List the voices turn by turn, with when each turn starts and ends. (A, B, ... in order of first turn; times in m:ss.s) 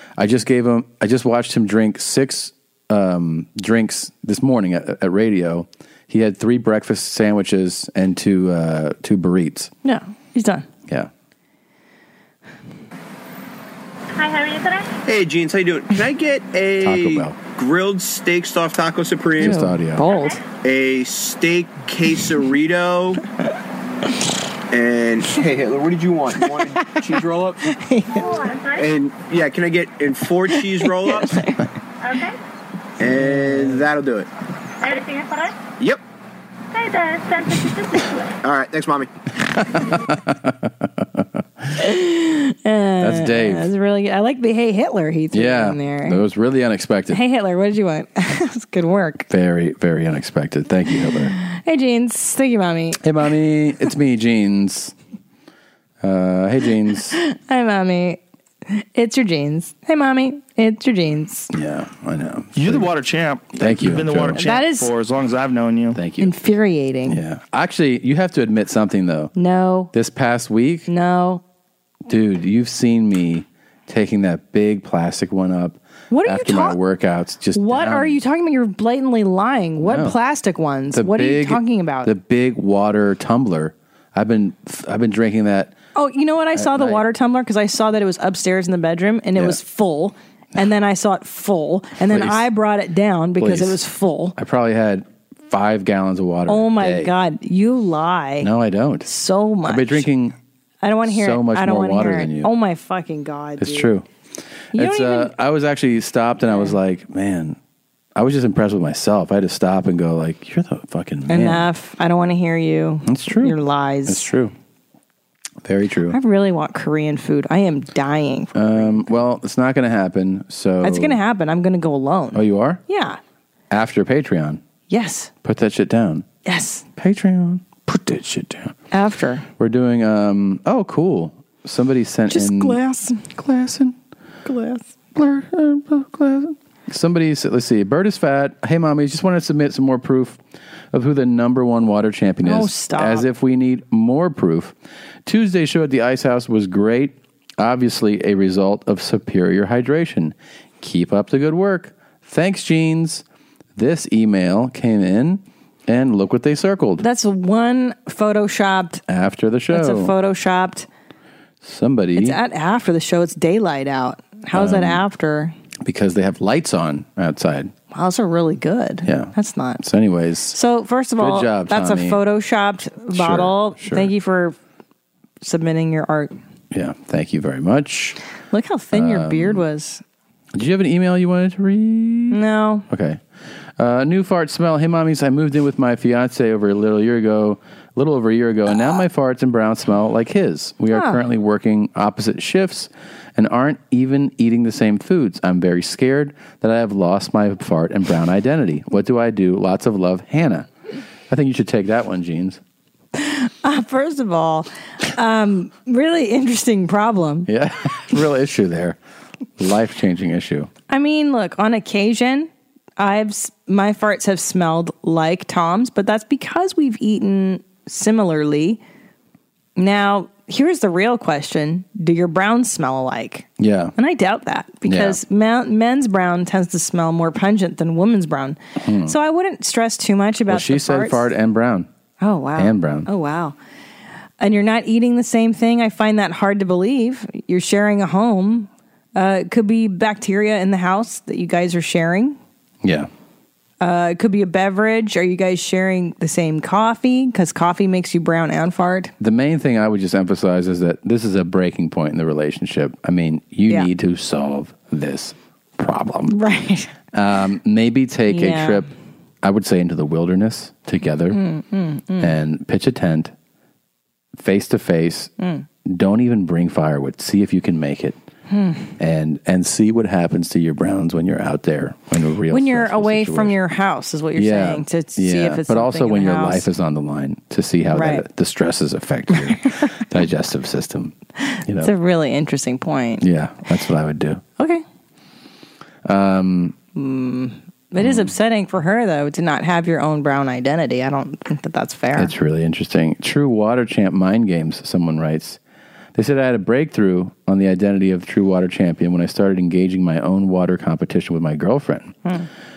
0:00.2-0:09.7 A
0:09.8-0:10.7 B
0:14.2-0:14.9 C
0:15.1-0:19.6 D
0:16.8-0:17.4 A
0:19.4-0:20.0 A
0:19.4-0:20.4 B
0:20.1-0:20.4 C
0:20.6-0:23.2 D
0:24.7-0:27.6 D
0:26.7-0:27.0 B
0:27.6-0:28.4 B
0:28.1-0:28.9 C
0:28.8-0:31.4 D
0:30.9-0:31.6 B
0:32.0-0:32.4 C
0:33.0-0:34.3 D
0:34.8-0:35.6 C
0:36.7-0:38.3 C
0:38.4-0:39.1 D
0:39.5-0:41.2 A
0:41.8-0:46.2 B
0:43.0-0:43.7 A
0:45.3-0:47.2 A
0:47.1-0:49.3 B
0:49.3-0:51.4 A
0:51.3-0:53.0 B
0:53.0-0:54.9 A
0:56.0-0:57.2 A
0:57.1-1:01.5 B
1:01.5-1:02.9 A
1:02.6-1:06.0 E
1:03.5-1:04.4 A
1:04.4-1:04.9 B
1:05.9-1:06.3 A
1:06.2-1:07.2 B
1:07.1-1:09.3 A
1:09.4-1:09.9 B
1:09.9-1:10.9 A
1:10.9-1:11.4 B
1:12.1-1:18.2 A
1:16.1-1:16.8 B
1:17.6-1:22.1 B
1:19.8-1:20.2 A
1:20.9-1:25.8 A
1:26.0-1:34.4 B
1:26.6-1:27.0 A
1:32.1-1:32.4 A
1:33.4-1:33.8 A
1:34.4-1:37.1 A
1:36.5-1:38.5 B
1:38.4-1:39.1 A
1:39.0-1:40.1 B
1:39.7-1:40.4 A
1:40.8-1:43.9 B
1:41.0-1:42.5 A
1:43.6-1:44.1 A
1:44.7-1:47.6 A
1:44.7-1:45.3 B
1:46.5-1:46.8 B
1:48.2-1:51.7 A
1:51.3-1:54.3 B
1:53.1-1:54.5 A
1:55.6-1:56.2 A
1:56.1-1:59.2 B
1:58.6-2:01.2 A
2:00.8-2:03.2 B
2:02.3-2:02.8 A
2:03.7-2:04.6 A
2:04.9-2:05.3 B
2:05.4-2:06.3 A
2:06.5-2:06.8 B
2:07.0-2:08.8 A
2:08.9-2:09.5 B
2:09.6-2:14.0 A
2:12.3-2:13.3 B
2:14.4-2:14.9 B
2:15.2-2:20.4 A
2:20.9-2:24.7 A
2:22.4-2:23.3 B
2:25.3-2:33.2 A
2:33.8-2:37.0 A
2:37.0-2:39.0 B
2:39.1-2:40.1 A
2:39.7-2:40.9 B
2:41.6-2:42.4 A
2:42.2-2:45.5 B
2:44.5-2:45.0 A
2:45.8-2:47.7 A
2:47.9-2:49.8 B
2:49.0-2:50.6 A
2:50.5-2:54.6 B
2:51.2-2:52.2 A
2:53.1-2:54.1 A
2:55.4-2:56.3 B
2:56.7-2:58.2 A
2:58.5-3:00.0 B
2:58.9-2:59.7 A
3:00.6-3:03.2 A
3:02.3-3:02.9 B
3:03.8-3:20.7 A
3:10.9-3:11.2 B
3:21.3-3:22.6 A
3:23.2-3:27.5 B
3:27.5-3:29.0 A
3:29.6-3:30.7 A
3:30.9-3:38.8 B
3:39.8-3:51.2 B
3:43.6-3:43.9 A
3:44.8-3:45.2 A
3:48.8-3:49.2 A
3:50.5-3:51.9 A
3:52.2-3:53.6 B
3:52.6-3:53.1 A
3:54.4-4:02.4 B
4:02.8-4:03.1 A
4:03.8-4:09.1 B
4:09.2-4:16.4 A
4:16.3-4:16.9 B
4:17.1-4:18.9 A
4:18.3-4:18.9 B
4:19.4-4:21.4 A
4:21.3-4:22.3 B
4:22.2-4:23.3 A
4:24.4-4:25.3 A
4:25.4-4:25.7 B
4:25.9-4:28.2 A
4:28.5-4:28.9 B
4:29.0-4:33.6 A
4:32.5-4:36.7 B
4:34.4-4:41.1 A
4:37.9-4:38.2 B
4:41.5-4:43.2 B
4:43.2-4:44.4 A
4:44.6-4:44.8 B
4:46.0-4:46.8 A
4:47.0-4:52.3 B
4:48.0-4:48.3 A
4:52.2-4:55.6 A
4:56.2-5:02.2 A